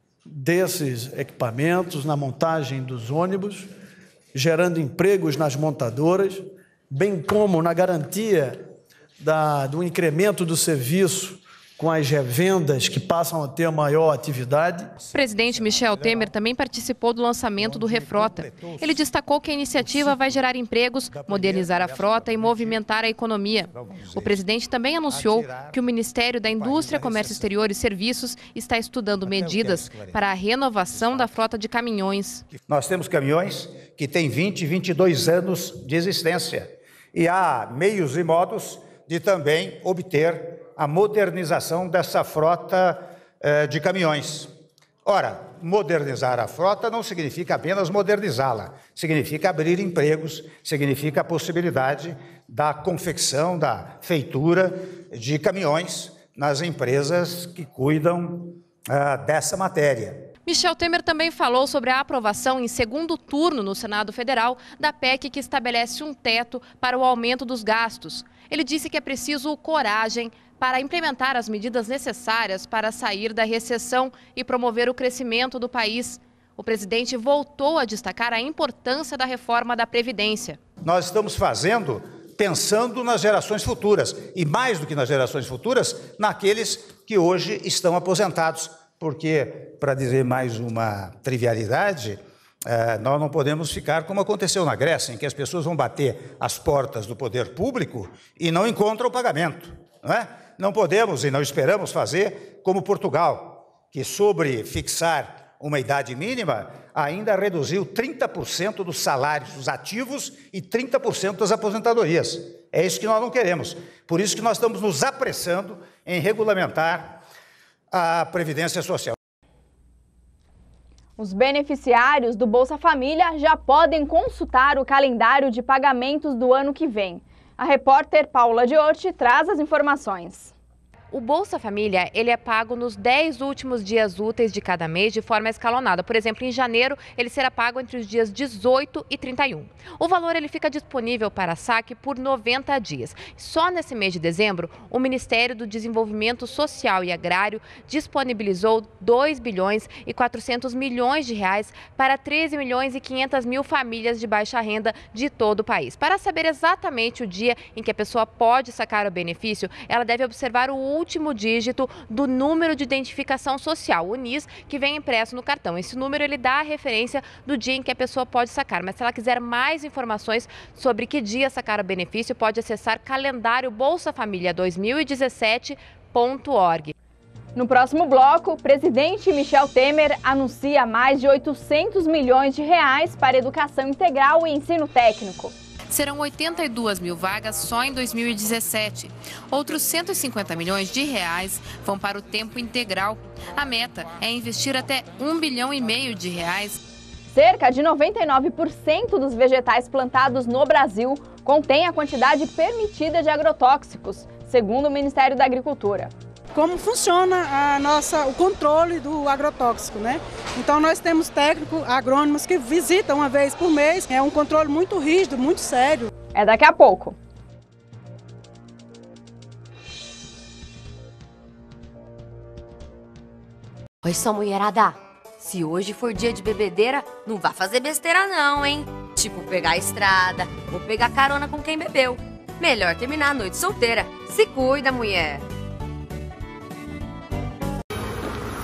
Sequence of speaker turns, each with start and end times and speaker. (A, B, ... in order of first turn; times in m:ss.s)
0:00.3-0:03.7 A
0:04.3-0:08.6 A
0:09.2-0:14.9 A
0:15.1-0:32.4 B
0:15.2-0:16.3 C
0:17.6-0:19.0 C
0:19.8-0:20.5 C
0:21.1-0:24.4 C
0:25.1-0:25.8 C
0:26.5-0:27.5 C
0:29.2-0:30.2 C
0:30.9-0:31.3 C
0:32.5-0:44.5 C
0:45.0-1:00.2 C
1:00.4-1:20.6 B
1:20.8-1:57.2 C
1:57.9-1:59.1 C
2:01.2-2:10.5 D
2:11.1-2:56.9 B
2:57.6-3:05.5 D
3:05.9-3:16.8 B
3:17.3-3:26.1 D
3:26.5-3:36.1 E
3:36.3-3:37.2 D
3:44.0-3:55.4 F